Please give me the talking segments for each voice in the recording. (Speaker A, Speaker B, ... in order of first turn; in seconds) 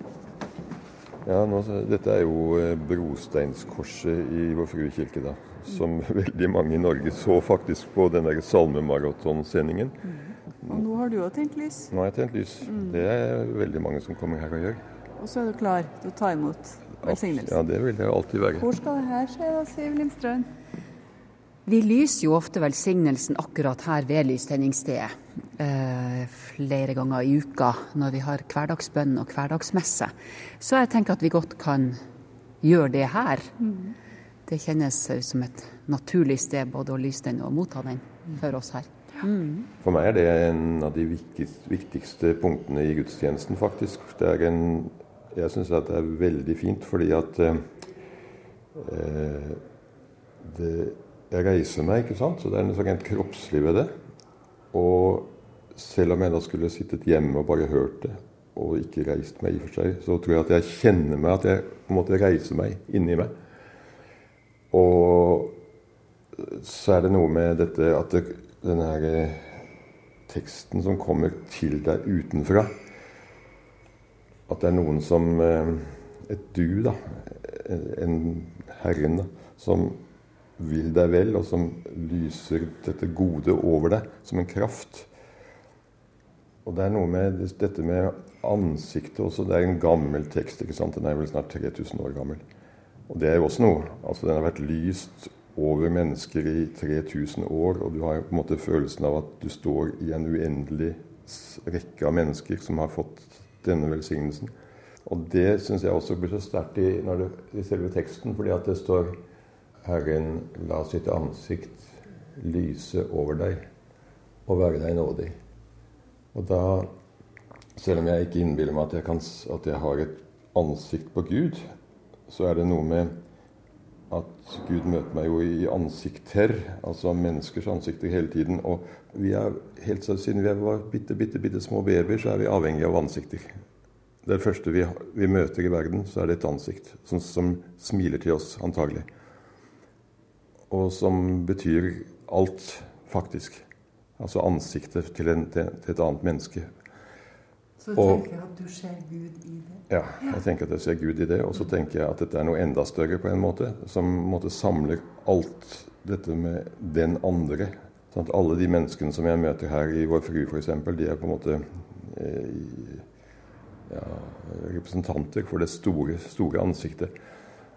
Speaker A: 1.2-10.0, 11.9-14.8, 17.0-18.7, 39.8-47.7, 48.8-49.6, 50.4-54.0, 54.7-63.3, 64.7-65.6, 66.4-69.6, 70.3-72.8, 74.5-80.0, 80.6-85.1, 86.7-92.4, 93.1-104.5, 105.0-109.2, 109.8-113.7, 114.5-115.4, 116.3-116.9, 117.8-121.7, 122.3-123.2, 124.1-133.5, 134.2-139.1, 140.7-143.7, 144.2-146.7, 147.9-148.3, 149.9-163.1, 163.9-167.1
Speaker B: 10.1-11.9, 12.6-13.0, 15.2-17.6, 18.6-20.5, 33.6-33.9, 147.8-150.4
Speaker C: 21.7-32.0, 32.6-33.6, 34.5-39.7